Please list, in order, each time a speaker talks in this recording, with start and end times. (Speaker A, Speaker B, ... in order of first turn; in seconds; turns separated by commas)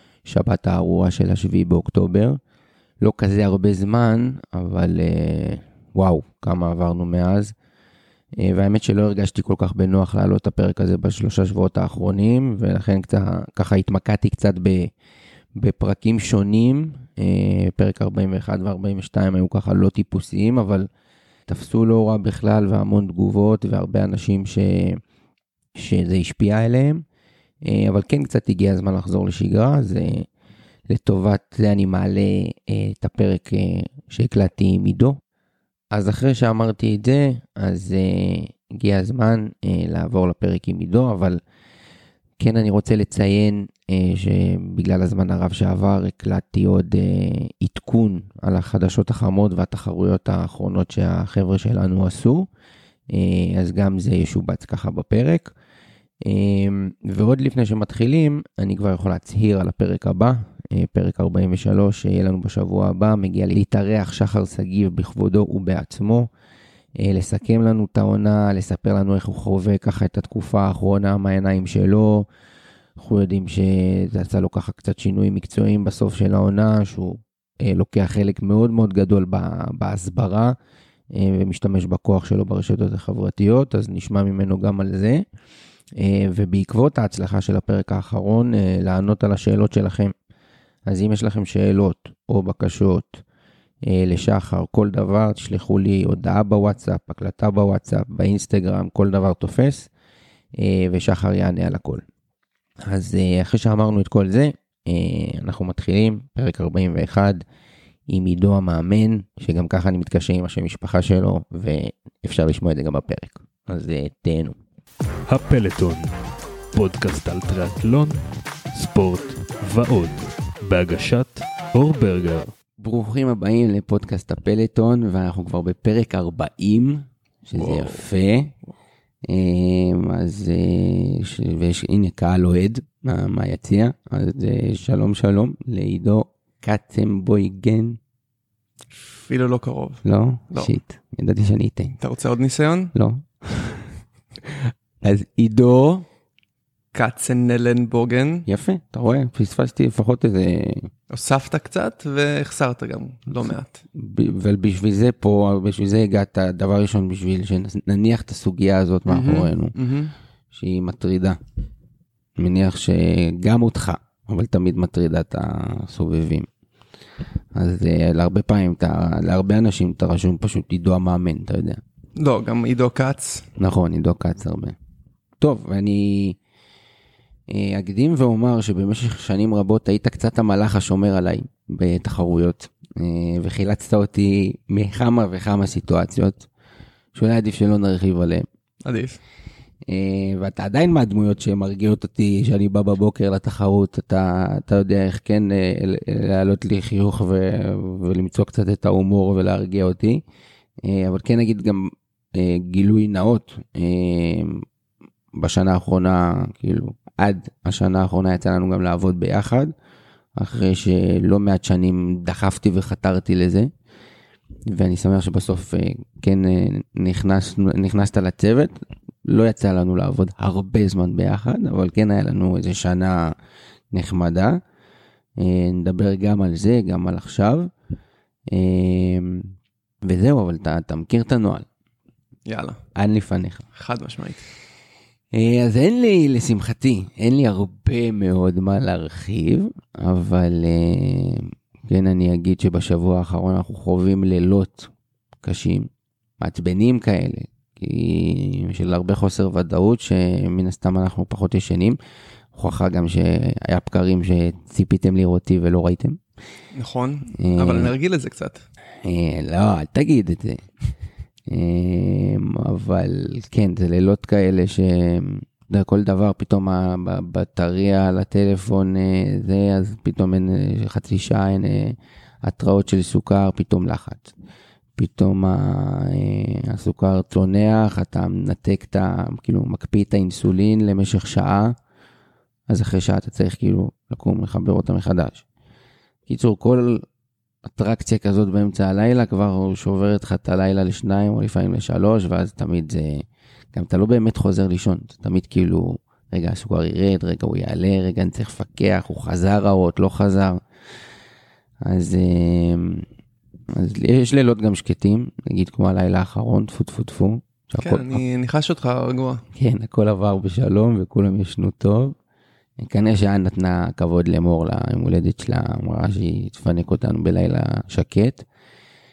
Speaker A: 0.2-2.4, Speaker A: 3.0-7.5, Speaker A: 8.4-14.9, Speaker A: 15.6-20.9, Speaker A: 21.5-25.0, Speaker A: 25.8-27.0, Speaker A: 27.6-30.3, Speaker A: 30.9-35.2, Speaker A: 35.9-41.4, Speaker A: 42.4-52.5, Speaker A: 53.1-55.5, Speaker A: 56.2-66.3, Speaker A: 67.0-72.2, Speaker A: 73.0-80.5, Speaker A: 81.1-85.2, Speaker A: 86.0-90.1, Speaker A: 90.9-93.2, Speaker A: 93.9-99.9, Speaker A: 100.6-102.0, Speaker A: 102.8-107.4, Speaker A: 108.1-114.5, Speaker B: 115.3-116.1, Speaker B: 116.7-122.5, Speaker A: 122.8-128.5, Speaker C: 127.5-128.1, Speaker A: 129.3-138.0, Speaker C: 138.9-140.7, Speaker A: 140.0-141.9, Speaker C: 142.0-142.9, Speaker A: 142.9-143.9, Speaker A: 144.5-146.1, Speaker C: 146.9-148.5, Speaker A: 148.4-150.9, Speaker C: 151.1-153.8, Speaker A: 153.9-159.7, Speaker C: 159.1-160.1, Speaker A: 160.5-161.4, Speaker A: 162.4-166.5, Speaker A: 167.5-171.8, Speaker C: 172.2-173.4, Speaker A: 173.6-174.8, Speaker A: 175.4-176.4, Speaker A: 177.5-186.5, Speaker A: 187.1-188.4, Speaker C: 188.8-189.2, Speaker A: 189.9-200.2, Speaker A: 200.8-204.6, Speaker A: 205.3-209.7, Speaker A: 210.3-213.7, Speaker A: 214.7-223.3, Speaker A: 223.9-224.6, Speaker A: 225.4-227.7, Speaker A: 228.5-229.5, Speaker A: 230.0-231.7, Speaker C: 232.4-232.8, Speaker A: 232.9-233.7, Speaker C: 233.7-234.4, Speaker A: 235.3-244.9, Speaker A: 245.4-245.9, Speaker A: 246.4-252.0, Speaker A: 252.5-256.2, Speaker C: 256.7-258.6, Speaker A: 257.4-257.9, Speaker A: 259.0-260.6, Speaker A: 261.5-274.3, Speaker A: 274.9-281.8, Speaker A: 282.7-285.4, Speaker A: 286.3-287.0, Speaker A: 287.6-300.6, Speaker A: 301.8-303.1, Speaker A: 303.7-308.2, Speaker C: 307.8-309.4, Speaker A: 309.5-312.1, Speaker A: 312.8-318.4